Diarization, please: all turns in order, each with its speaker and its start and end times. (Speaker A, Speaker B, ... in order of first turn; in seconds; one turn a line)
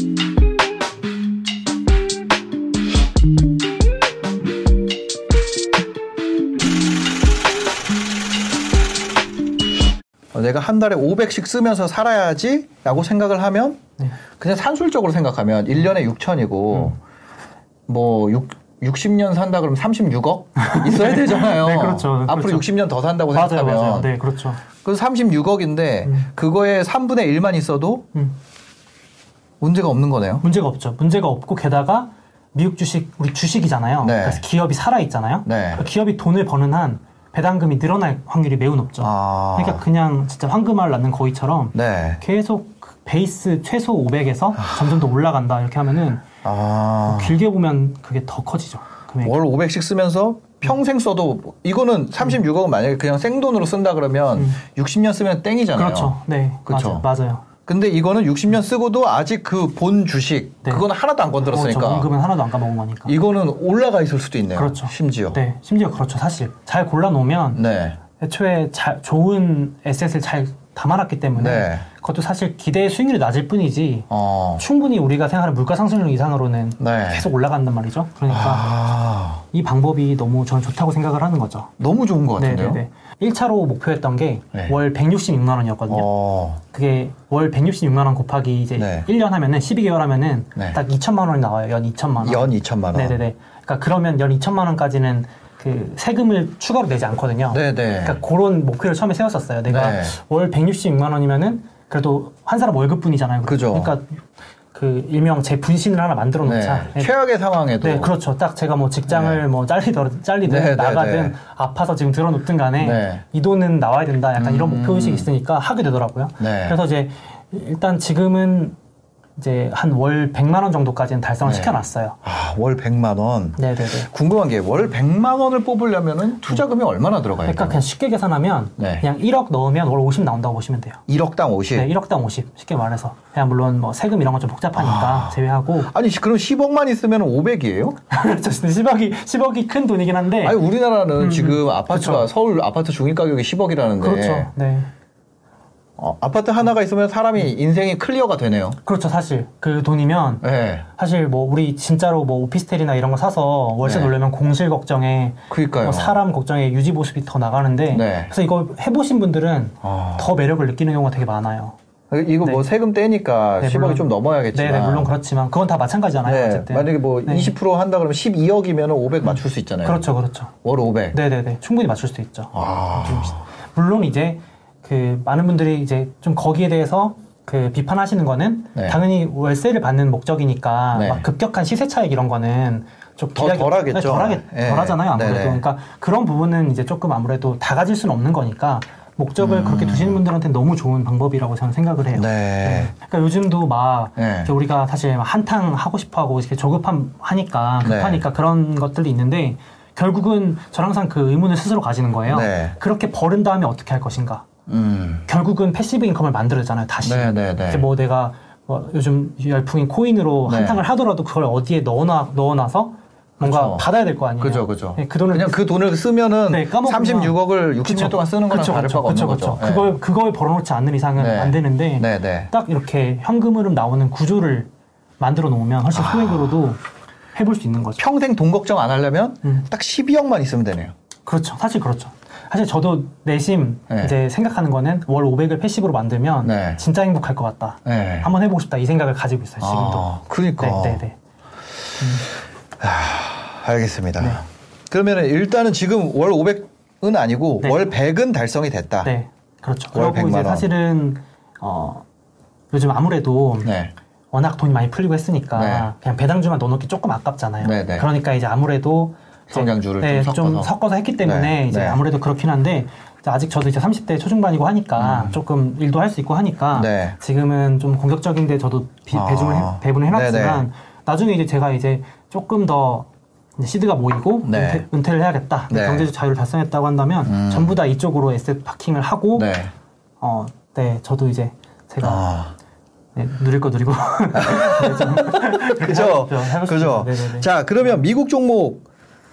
Speaker A: 10.3-13.8
Speaker A: 14.4-17.0
Speaker A: 17.9-24.1
Speaker B: 20.6-22.7
Speaker B: 23.3-24.6
Speaker A: 24.8-28.1
Speaker A: 29.6-30.4
Speaker B: 30.4-46.3
Speaker A: 34.0-34.4
Speaker A: 35.5-35.8
Speaker A: 39.0-39.8
Speaker A: 41.7-42.2
Speaker A: 46.4-47.4
Speaker B: 47.1-49.4
Speaker A: 49.2-57.1
Speaker B: 54.4-54.6
Speaker B: 55.7-57.5
Speaker A: 57.6-62.1
Speaker B: 61.4-63.1
Speaker A: 63.1-65.4
Speaker B: 64.5-67.6
Speaker A: 67.5-68.0
Speaker B: 68.2-78.8
Speaker A: 71.3-71.9
Speaker A: 74.1-74.6
Speaker A: 76.8-77.3
Speaker A: 78.3-79.5
Speaker B: 79.5-81.7
Speaker A: 81.8-82.8
Speaker B: 82.4-86.1
Speaker A: 85.9-86.6
Speaker B: 86.7-104.2
Speaker A: 88.8-89.1
Speaker A: 92.2-93.2
Speaker A: 97.5-98.2
Speaker A: 99.7-100.2
Speaker A: 103.5-104.0
Speaker B: 104.7-107.1
Speaker A: 106.4-108.1
Speaker B: 107.8-118.8
Speaker A: 109.1-109.4
Speaker A: 110.4-111.4
Speaker A: 112.8-113.2
Speaker A: 114.4-115.3
Speaker A: 116.4-116.8
Speaker B: 119.4-122.2
Speaker A: 121.4-121.7
Speaker A: 122.2-127.8
Speaker B: 123.6-124.1
Speaker B: 127.5-131.0
Speaker A: 128.8-129.1
Speaker A: 131.1-131.9
Speaker B: 131.7-135.9
Speaker A: 134.8-138.0
Speaker B: 138.1-140.6
Speaker A: 140.4-144.5
Speaker B: 141.2-142.3
Speaker B: 144.0-144.9
Speaker A: 146.0-148.8
Speaker B: 148.8-161.8
Speaker A: 150.4-150.9
Speaker A: 153.8-154.1
Speaker A: 155.5-156.2
Speaker A: 157.9-158.3
Speaker A: 159.8-160.3
Speaker A: 162.1-165.1
Speaker B: 163.6-167.5
Speaker A: 166.2-170.0
Speaker B: 169.2-170.5
Speaker A: 170.6-171.2
Speaker B: 171.1-204.5
Speaker A: 172.5-173.4
Speaker A: 180.9-181.2
Speaker A: 183.4-185.6
Speaker A: 189.4-190.2
Speaker A: 192.1-192.9
Speaker A: 194.2-194.5
Speaker A: 197.8-198.2
Speaker A: 202.3-202.8
Speaker A: 204.7-205.3
Speaker B: 205.3-215.6
Speaker A: 207.0-207.8
Speaker A: 210.5-210.8
Speaker A: 213.4-213.9
Speaker A: 214.4-219.9
Speaker B: 216.5-226.8
Speaker A: 221.2-222.5
Speaker A: 225.9-226.6
Speaker B: 227.3-228.0
Speaker A: 228.0-230.9
Speaker B: 231.3-241.2
Speaker A: 236.4-236.8
Speaker A: 237.8-238.3
Speaker A: 239.6-241.0
Speaker B: 242.0-242.3
Speaker A: 242.8-249.1
Speaker B: 247.6-247.9
Speaker B: 249.0-252.1
Speaker A: 249.9-250.7
Speaker B: 252.7-253.7
Speaker A: 253.6-253.9
Speaker B: 254.3-279.5
Speaker A: 255.5-255.9
Speaker A: 257.6-258.1
Speaker A: 259.5-260.7
Speaker A: 261.2-262.0
Speaker A: 265.0-265.4
Speaker A: 266.7-267.2
Speaker A: 269.1-270.6
Speaker A: 274.4-274.9
Speaker A: 275.7-276.1
Speaker A: 277.3-277.8
Speaker A: 279.4-279.7
Speaker B: 280.2-282.3
Speaker A: 282.0-282.6
Speaker B: 283.1-288.0
Speaker A: 284.3-288.8